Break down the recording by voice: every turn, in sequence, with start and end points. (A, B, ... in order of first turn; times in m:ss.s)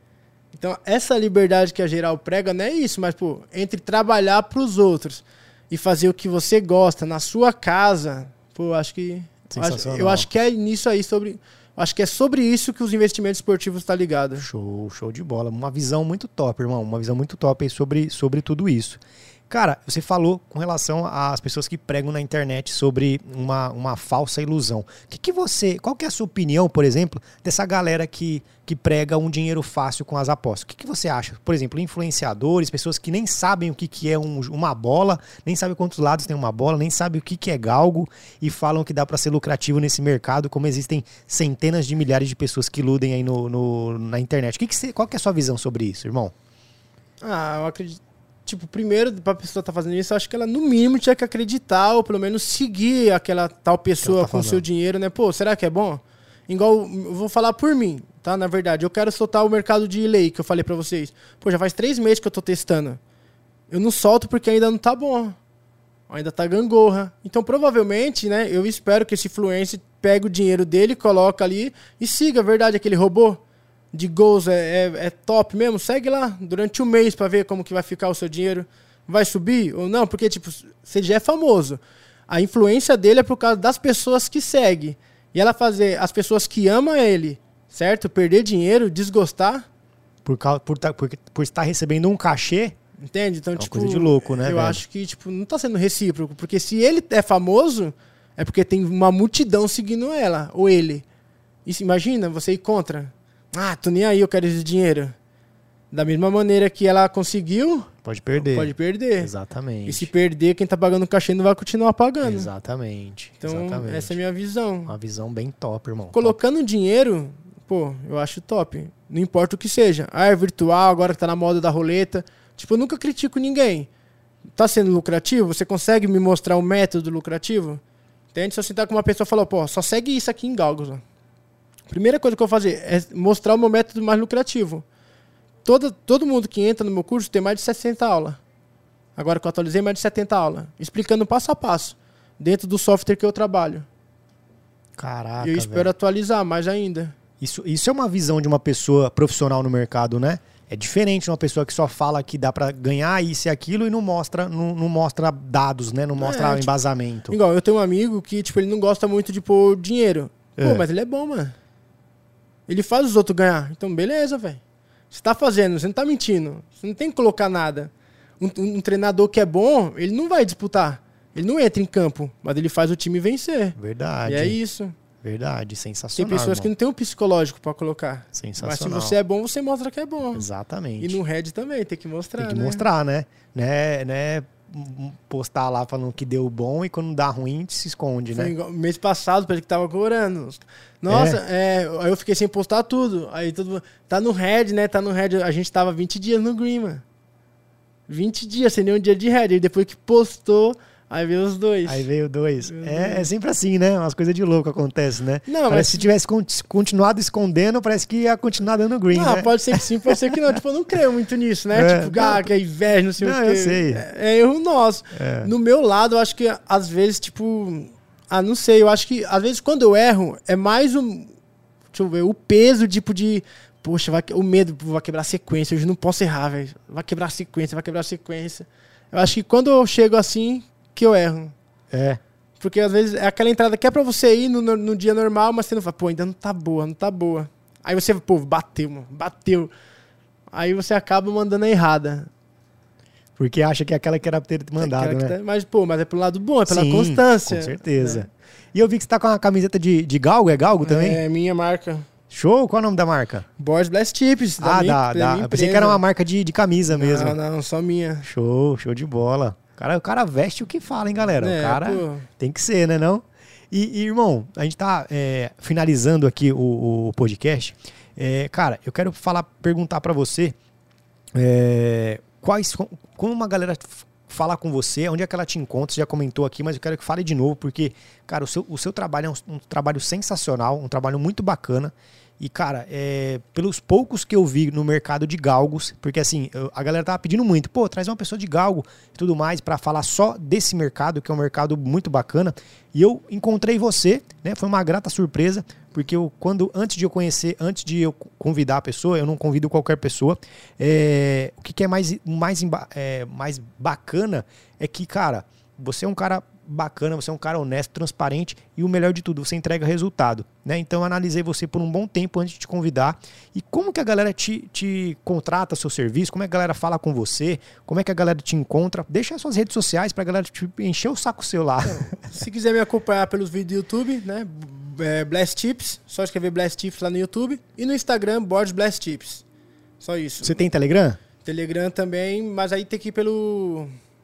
0:00.5-0:14.5 A
0:09.5-0:10.3 B
0:14.4-0:46.3 B
0:47.2-1:03.0 A
0:54.0-0:54.6 B
1:03.7-1:05.4 A
1:06.1-1:13.4 A
1:13.9-1:29.7 A
1:30.2-1:32.8 B
1:33.0-1:41.0 A
1:33.6-1:34.8 B
1:41.7-1:45.2 A
1:45.9-1:49.3 A
1:48.0-1:50.1 B
1:49.9-1:52.5 A
1:52.2-1:54.2 B
1:53.4-1:54.9 A
1:54.9-1:56.4 B
1:56.1-2:03.9 A
2:04.5-2:07.8 A
2:08.3-2:11.0 A
2:11.9-2:14.8 A
2:15.6-2:18.4 A
2:19.2-2:23.9 A
2:25.0-2:25.9 B
2:25.4-2:27.2 A
2:27.4-2:37.4 B
2:36.2-2:36.7 A
2:37.3-2:41.6 A
2:40.6-2:40.8 B
2:42.7-2:54.9 A
2:53.8-2:54.6 B
2:55.2-2:56.7 B
2:56.2-3:00.5 A
2:58.3-2:59.2 B
3:00.3-3:01.2 B
3:01.0-3:02.8 A
3:02.4-3:08.5 B
3:08.3-3:17.0 A
3:11.1-3:11.4 B
3:18.1-3:22.1 A
3:21.8-3:30.5 B
3:22.6-3:23.3 A
3:25.5-3:26.1 A
3:29.1-3:41.3 A
3:31.7-3:32.5 B
3:33.2-3:34.0 B
3:35.1-3:35.5 B
3:41.9-3:51.5 A
3:51.9-3:52.2 B
3:52.6-3:59.7 A
4:00.5-4:02.3 A
4:03.4-4:05.4 B
4:04.8-4:08.3 A
4:06.7-4:11.2 B
4:10.8-4:12.1 A
4:12.3-4:13.5 B
4:13.6-4:16.0 A
4:14.6-4:17.4 B
4:16.9-4:18.3 A
4:18.2-4:30.6 B
4:21.4-4:22.3 A
4:31.3-5:22.4 B
5:21.8-5:29.4 A
5:30.0-5:30.6 A
5:30.4-5:31.2 B
5:31.4-5:33.9 A